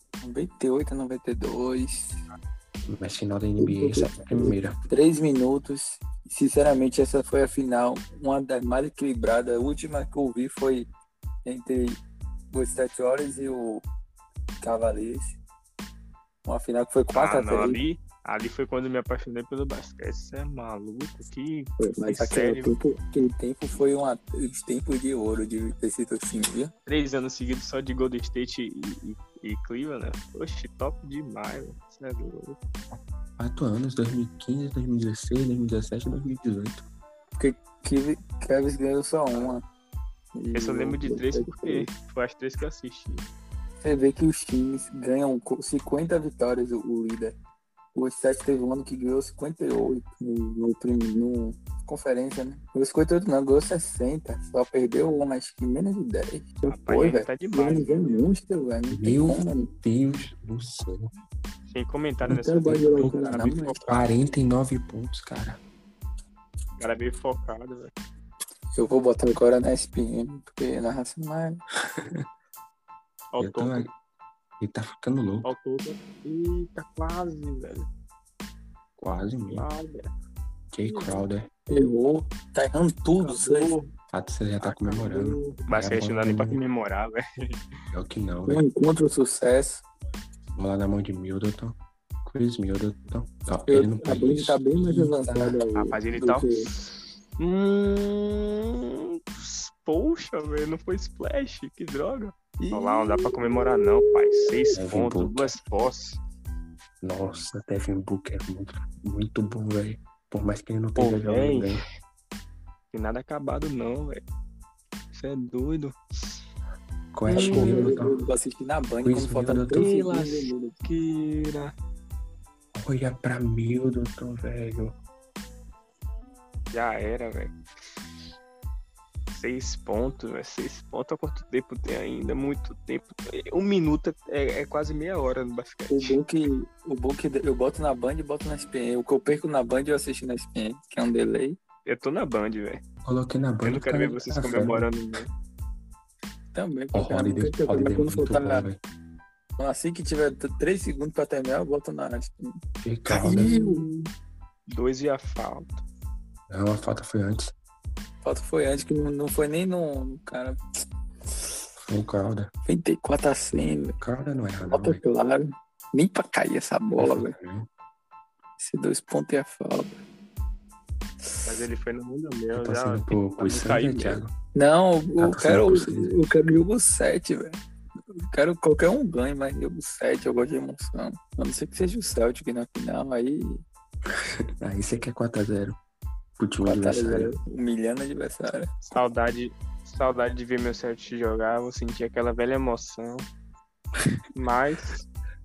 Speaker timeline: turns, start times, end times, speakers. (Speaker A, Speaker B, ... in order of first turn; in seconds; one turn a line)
Speaker A: 0.2-2.2
Speaker B: 2.9-4.8
Speaker A: 3.6-10.9
Speaker A: 11.4-12.0
Speaker A: 12.5-13.8
Speaker A: 14.6-15.3
Speaker A: 16.4-17.8
Speaker C: 17.1-22.7
Speaker A: 21.8-26.7
Speaker C: 26.9-32.6
Speaker B: 33.4-36.8
Speaker A: 37.4-39.6
Speaker C: 39.3-39.6
Speaker A: 40.3-41.9
Speaker C: 40.5-43.2
Speaker A: 43.8-47.4
Speaker A: 47.9-59.7
Speaker C: 56.7-58.2
Speaker B: 58.9-61.1
Speaker C: 61.7-64.1
Speaker A: 62.3-63.9
Speaker B: 62.7-65.6
Speaker C: 66.8-67.9
Speaker A: 68.7-71.6
Speaker B: 71.9-72.2
Speaker C: 73.3-73.9
Speaker B: 73.4-73.9
Speaker B: 74.6-75.5
Speaker C: 75.4-77.9
Speaker B: 79.0-79.7
Speaker C: 79.5-80.1
Speaker B: 80.7-81.5
Speaker C: 80.9-81.3
Speaker A: 81.7-83.8
Speaker C: 83.2-83.9
Speaker B: 84.1-86.6
Speaker C: 84.6-87.5
Speaker B: 87.9-88.6
Speaker A: 88.5-89.8
Speaker B: 90.5-95.6
Speaker A: 93.7-96.7
Speaker C: 95.7-106.2
Speaker A: 102.6-104.5
Speaker B: 104.7-105.5
Speaker B: 107.0-111.8
Speaker C: 111.0-111.8
Speaker C: 112.9-114.2
Speaker C: 115.1-116.0
Speaker B: 117.1-118.1
Speaker C: 117.3-118.0
Speaker A: 117.3-120.8
Speaker B: 119.0-119.9
Speaker C: 119.7-121.7
Speaker B: 122.7-125.0
Speaker C: 126.7-127.5
Speaker C: 129.3-136.2
Speaker A: 135.9-141.6
Speaker C: 141.8-142.8
Speaker B: 143.0-144.8
Speaker C: 143.6-145.3
Speaker A: 146.5-148.7
Speaker B: 146.9-148.8
Speaker A: 149.6-152.6
Speaker B: 152.8-153.5
Speaker A: 153.1-153.8
Speaker C: 153.1-154.1
Speaker C: 154.7-155.8
Speaker B: 156.5-157.5
Speaker A: 158.2-160.8
Speaker B: 161.8-162.5
Speaker A: 162.7-164.0
Speaker B: 164.0-165.0
Speaker A: 164.7-167.3
Speaker B: 167.0-167.7
Speaker A: 168.6-170.0
Speaker A: 171.2-171.6
Speaker C: 171.4-174.2
Speaker B: 172.5-174.3
Speaker A: 174.5-177.6
Speaker B: 175.2-176.2
Speaker A: 178.2-183.6
Speaker B: 184.6-185.8
Speaker B: 186.4-187.3
Speaker A: 186.6-188.7
Speaker C: 188.8-193.2
Speaker C: 194.3-195.0